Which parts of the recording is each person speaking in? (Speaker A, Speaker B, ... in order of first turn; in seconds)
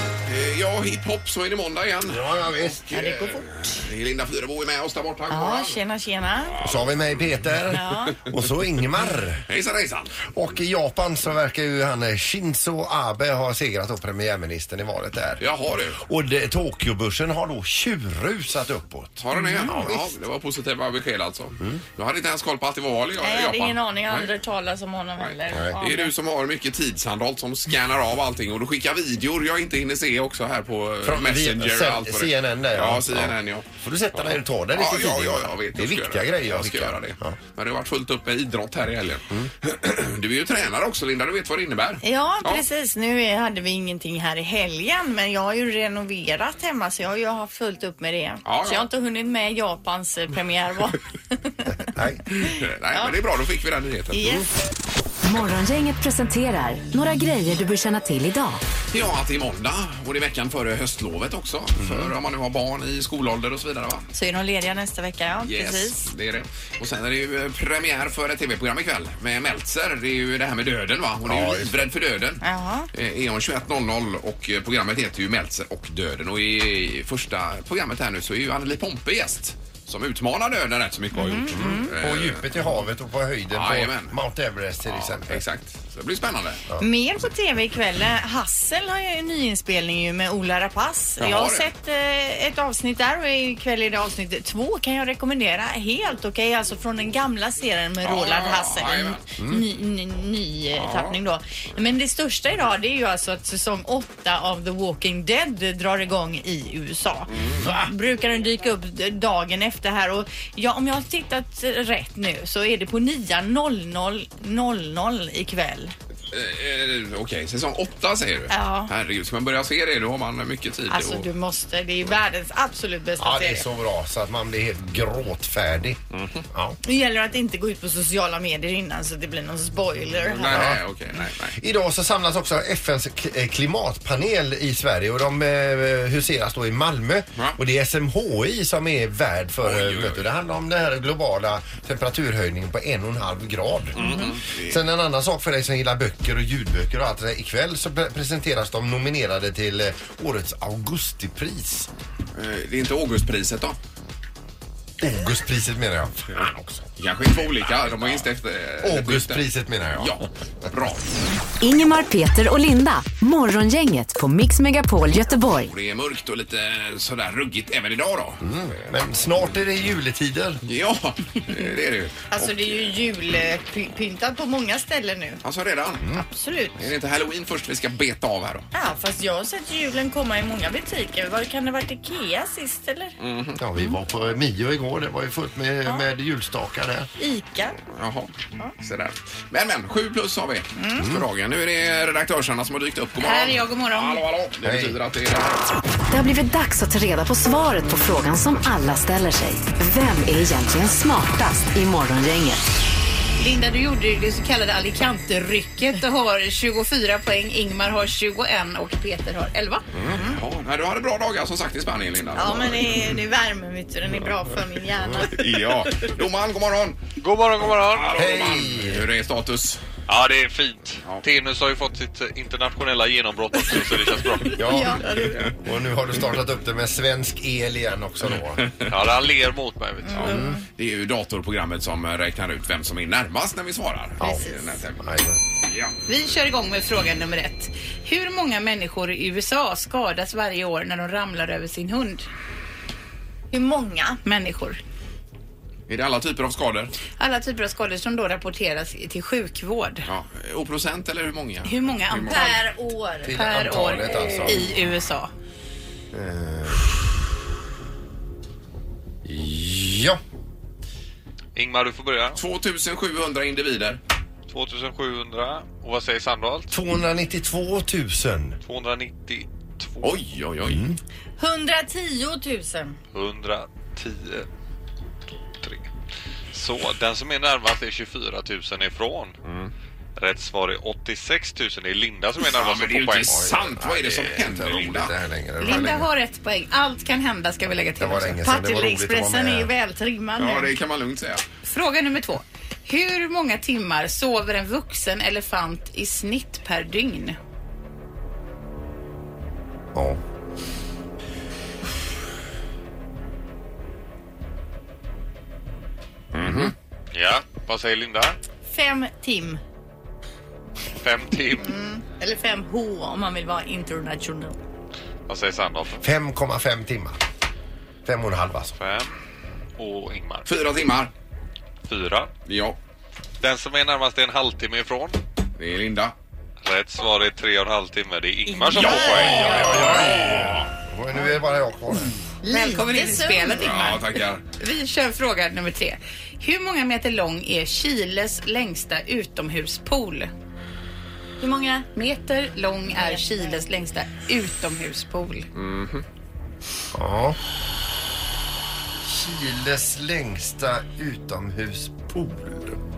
Speaker A: 0.2-5.8, 6.5-7.8, 9.4-10.3, 15.4-16.0, 19.2-24.3, 25.2-42.6, 48.4-48.9, 52.5-54.5, 58.9-64.0, 65.5-82.6, 83.5-84.1, 84.8-86.6, 91.2-91.7, 98.0-99.2, 100.8-101.2, 107.3-107.7, 116.3-121.3, 126.1-126.4, 130.2-131.6, 139.6-140.3, 143.9-144.8, 152.3-153.8, 156.4-161.0, 165.6-168.5, 170.6-172.9, 175.4-176.1, 176.8-178.7, 183.2-183.6, 187.9-195.6, 209.9-213.0, 215.1-217.0, 217.8-219.8, 228.6-228.9, 230.2-235.1, 245.9-246.9, 250.1-252.5, 262.4-264.0, 270.0-270.8, 279.4-279.7, 282.4-285.1, 285.6-285.9, 290.4-291.4, 306.3-306.7, 320.5-321.1, 322.4-322.8, 325.6-326.1, 328.7-330.7, 333.5-334.4, 345.5-346.0
Speaker B: 2.0-2.9, 6.6-9.4, 10.3-15.4, 16.0-20.1, 31.0-37.4, 51.9-52.2, 61.8-62.1, 71.2-71.8, 81.5-85.4, 99.4-99.6, 123.2-126.0, 126.5-126.8, 130.4-130.8, 131.6-151.9, 155.0-156.9, 157.7-158.2, 158.8-160.1, 168.4-170.6, 183.6-187.1, 191.0-191.2, 194.6-194.9, 218.1-219.1, 224.6-225.0, 225.5-228.6, 230.2-230.5, 234.2-234.4, 235.0-235.4, 253.3-254.6, 256.1-256.9, 259.2-260.2, 266.7-268.6, 270.6-271.0, 283.3-286.1, 288.0-289.7, 306.4-306.7, 316.0-317.2, 318.0-318.7, 329.5-332.1, 346.9-347.4, 349.0-352.8
Speaker C: 2.9-3.8, 5.3-6.5, 7.7-8.2, 19.3-19.8, 23.2-26.1, 42.0-51.7, 52.4-53.1, 54.1-54.5, 64.1-66.1, 72.4-72.9, 81.1-81.9, 86.8-115.9, 118.5-118.9, 120.9-123.7, 126.8-130.5, 172.3-175.4, 176.3-176.8, 178.7-183.1, 187.2-187.8, 190.8-191.0, 212.4-215.5, 224.4-225.5, 230.0-230.6, 243.5-244.2, 252.3-253.3, 271.4-273.0, 288.4-290.7, 308.7-309.6, 311.5-314.6, 328.5-329.9, 332.4-333.8, 341.4-341.9, 342.9-343.5
Speaker D: 55.2-58.6, 161.6-165.7, 196.1-202.6
Speaker E: 193.2-194.2, 203.4-209.8, 236.1-242.2, 244.2-244.8, 247.2-250.1, 251.6-252.6, 253.3-255.3, 285.6-288.4, 291.6-297.4, 332.5-340.3, 341.9-345.5
Speaker F: 217.2-218.3, 220.1-224.7, 228.9-230.4, 261.5-262.4, 264.5-266.7, 268.6-270.1, 273.1-274.4, 275.6-275.9, 276.5-279.3, 280.2-283.4, 307.1-308.4, 310.9-311.7, 315.3-316.0, 318.8-319.1, 319.8-320.5, 321.9-322.3, 323.4-325.2, 326.6-330.0